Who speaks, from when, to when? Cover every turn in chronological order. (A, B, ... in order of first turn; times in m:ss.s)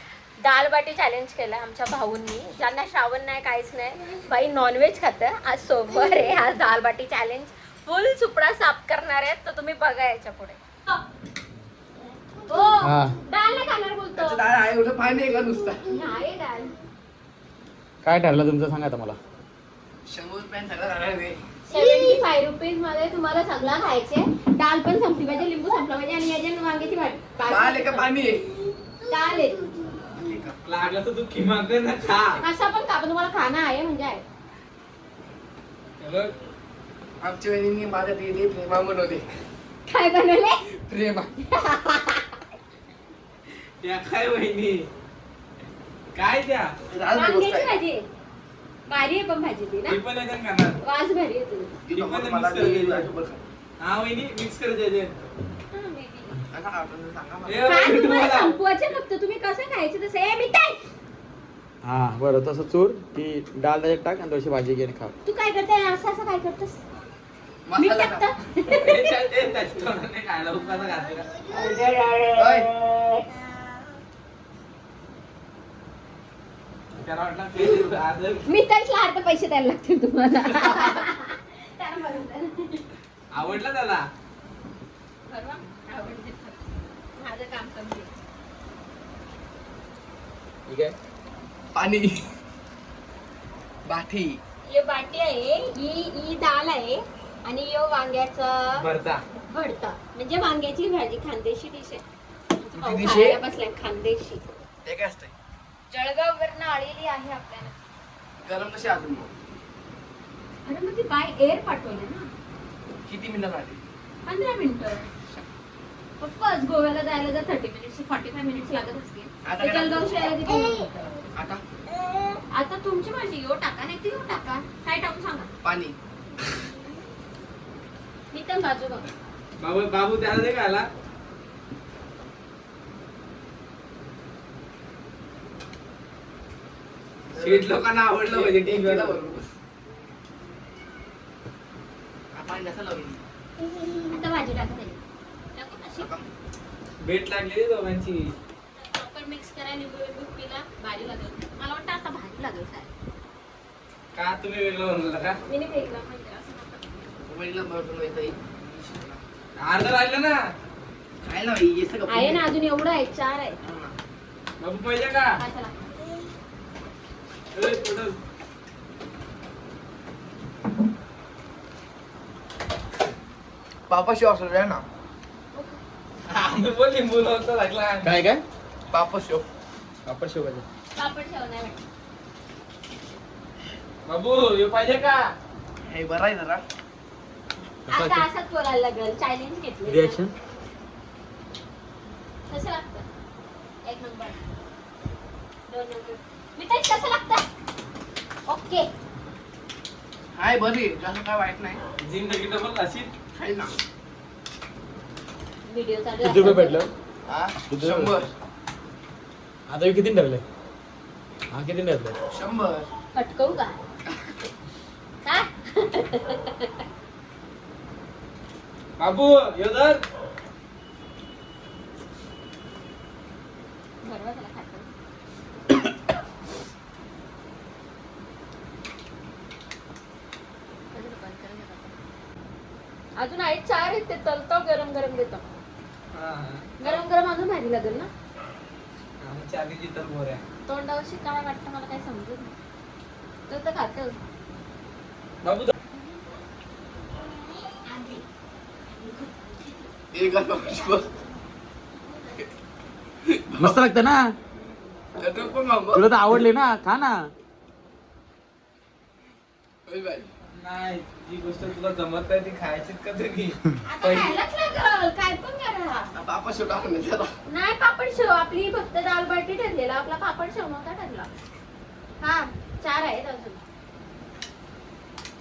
0:00.4-0:11.0 A
0:12.5-0:14.4 A
0:12.8-0:13.2 B
0:14.1-0:15.8 C
0:15.9-0:16.8 A
0:18.0-0:19.2 B
0:20.1-0:21.4 C
0:21.7-0:28.1 A
0:27.4-0:28.7 C
0:29.1-0:29.6 A
0:30.1-0:30.6 C
0:30.6-0:32.4 D
0:32.4-0:34.2 A
0:36.0-0:36.3 D
0:37.2-0:39.2 C
0:39.9-0:40.6 A
0:40.7-0:41.4 C
0:41.5-0:42.3 A
0:43.8-0:44.9 D
0:46.1-0:46.8 D
0:46.9-0:47.7 C
0:47.1-0:48.0 A
0:48.9-0:50.0 A
0:49.9-0:50.8 D
0:50.8-0:51.7 A
0:51.8-0:53.4 C
0:51.9-0:53.1 D
0:53.8-0:55.1 D
0:55.7-0:56.4 A
0:56.5-0:57.9 C
0:57.5-0:58.6 D
0:57.7-1:00.8 A
1:01.8-1:05.1 B
1:05.2-1:06.8 A
1:07.7-1:08.3 C
1:07.8-1:09.0 A
1:08.7-1:11.5 D
1:11.5-1:13.4 A
1:12.4-1:12.7 C
1:17.0-1:18.5 D
1:18.5-1:22.9 A
1:23.3-1:24.1 D
1:25.3-1:28.1 A
1:30.7-1:31.0 B
1:31.7-1:32.2 C
1:33.8-1:34.4 C
1:34.7-1:38.8 A
1:38.8-1:39.2 D
1:39.5-1:42.0 A
1:42.6-1:44.4 A
1:42.7-1:43.4 C
1:44.8-1:45.3 C
1:45.9-1:47.7 A
1:48.4-1:49.3 C
1:50.7-1:52.3 A
1:53.0-1:53.8 C
1:54.3-1:55.1 A
1:56.2-2:01.2 A
1:59.4-2:00.4 C
2:01.4-2:01.6 C
2:01.9-2:05.5 A
2:05.6-2:06.0 C
2:08.3-2:09.1 A
2:09.6-2:10.9 D
2:17.3-2:19.5 C
2:17.4-2:19.2 D
2:22.3-2:23.2 C
2:24.1-2:25.0 A
2:25.6-2:26.1 A
2:26.0-2:26.3 C
2:27.0-2:28.4 D
2:28.8-2:32.9 A
2:34.1-2:35.4 D
2:35.5-2:37.0 A
2:37.3-2:39.2 C
2:39.6-2:40.4 D
2:41.2-2:42.4 C
2:42.1-2:43.6 A
2:43.6-2:43.9 C
2:44.6-2:45.4 D
2:45.4-2:45.8 A
2:47.5-2:48.2 D
2:53.9-2:54.8 C
2:55.5-2:55.8 A
2:56.3-2:58.2 D
2:58.0-2:58.4 B
2:58.9-2:59.5 C
3:00.1-3:00.6 B
3:01.0-3:01.8 A
3:04.1-3:05.3 D
3:05.8-3:06.6 C
3:07.9-3:08.3 B
3:07.9-3:10.2 A
3:09.9-3:10.3 B
3:12.5-3:13.1 A
3:13.8-3:14.4 A
3:15.7-3:17.5 A
3:18.5-3:18.9 A
3:20.3-3:21.8 C
3:22.0-3:23.1 D
3:23.3-3:23.7 C
3:25.7-3:26.8 A
3:26.2-3:26.9 B
3:27.3-3:28.3 C
3:27.7-3:28.1 B
3:29.7-3:30.4 B
3:31.5-3:32.2 B
3:32.3-3:32.9 C
3:33.1-3:33.8 A
3:35.2-3:36.7 A
3:39.0-3:40.0 D
3:44.0-3:44.9 A
3:50.9-3:51.9 A
3:53.2-3:55.4 A
3:56.1-3:57.0 D
3:56.8-3:58.1 A
3:59.2-4:00.4 D
4:00.7-4:02.6 A
4:03.5-4:04.2 A
4:05.4-4:05.7 D
4:07.8-4:08.2 A
4:08.9-4:09.6 A
4:10.1-4:11.1 C
4:13.2-4:13.9 C
4:13.6-4:14.4 B
4:15.2-4:16.4 C
4:15.9-4:17.3 B
4:19.9-4:20.3 C
4:20.6-4:24.4 D
4:23.8-4:26.1 A
4:26.1-4:27.3 C
4:27.5-4:31.3 A
4:32.2-4:33.6 A